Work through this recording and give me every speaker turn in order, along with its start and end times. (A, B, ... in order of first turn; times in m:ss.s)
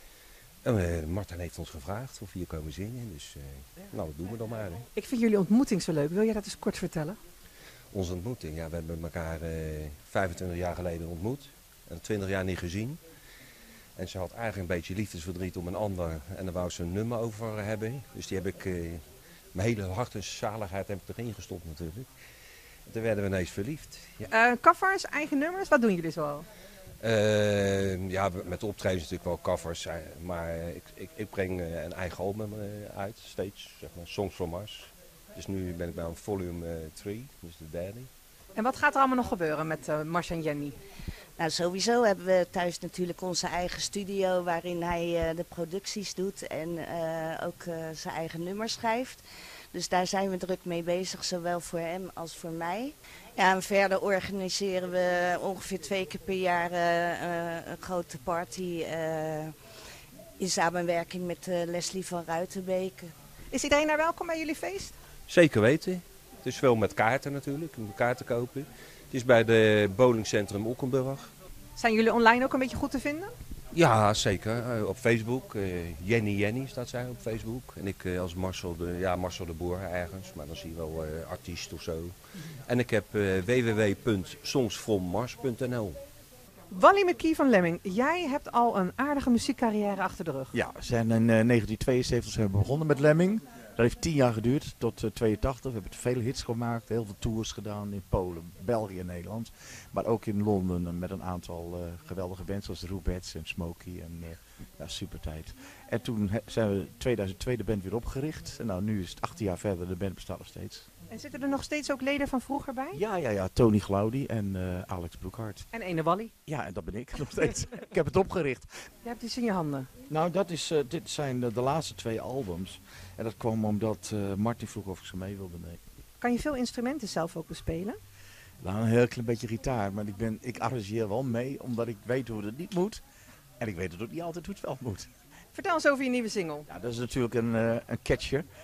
0:00.6-0:04.8 A
0:04.9-0:07.2 B
0:07.9-0:13.0 A
0:14.0-0:19.0 A
0:19.5-0:22.1 A
0:22.9-0:24.3 A
0:24.3-0:26.4 B
0:27.0-0:38.1 A
0:38.5-0:40.8 B
0:41.4-0:49.2 C
0:49.7-0:59.5 C
1:00.4-1:03.1 C
1:03.5-1:05.0 B
1:05.3-1:11.3 A
1:11.8-1:13.3 B
1:13.7-1:22.1 A
1:22.6-1:26.0 A
1:26.7-1:30.5 B
1:30.5-1:50.9 D
1:51.1-1:53.0 B
1:52.9-1:55.7 D
1:55.7-1:56.3 B
1:56.4-1:58.8 D
1:59.0-1:59.9 B
2:00.1-2:05.8 D
2:06.2-2:08.0 B
2:08.6-2:13.0 D
2:13.6-2:15.1 D
2:15.5-2:16.6 B
2:16.7-2:18.4 D